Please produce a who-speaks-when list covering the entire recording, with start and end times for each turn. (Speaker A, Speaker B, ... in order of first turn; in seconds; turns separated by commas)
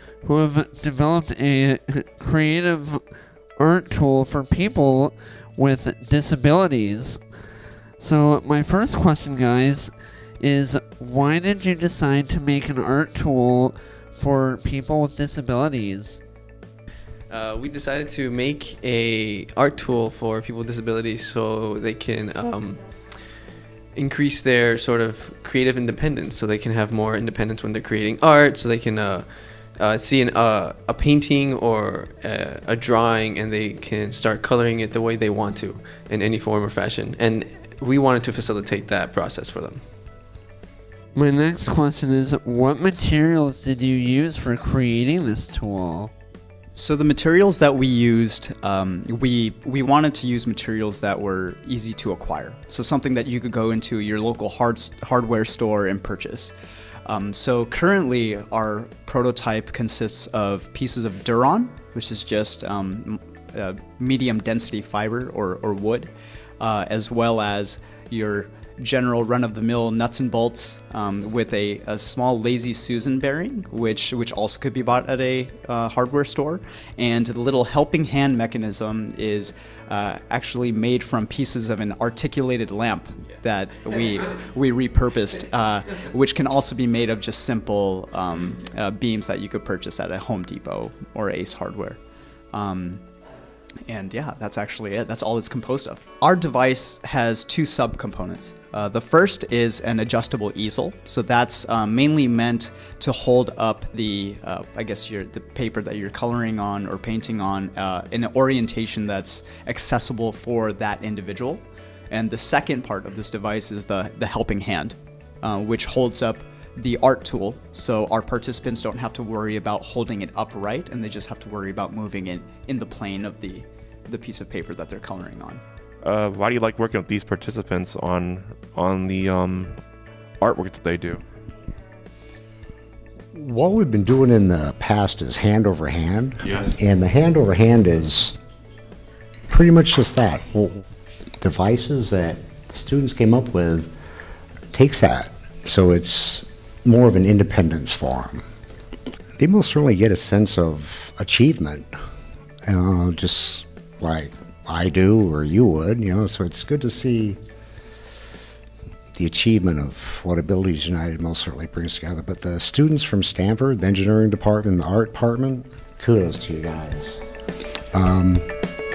Speaker A: 0.2-3.0, Speaker A: 3.6-7.2, Speaker A: 8.0-16.2, Speaker B: 17.3-23.3, Speaker B: 23.9-39.8, Speaker A: 41.1-46.1, Speaker C: 46.7-56.5, Speaker C: 57.0-92.0, Speaker C: 92.5-93.0, Speaker C: 93.9-125.6, Speaker D: 126.0-129.9, Speaker D: 130.4-131.2, Speaker E: 133.3-138.3, Speaker D: 136.5-136.7, Speaker E: 139.5-140.8, Speaker E: 141.4-143.9, Speaker E: 144.7-148.4, Speaker E: 149.4-151.9, Speaker E: 152.6-157.4, Speaker E: 159.1-167.2, Speaker E: 167.9-168.5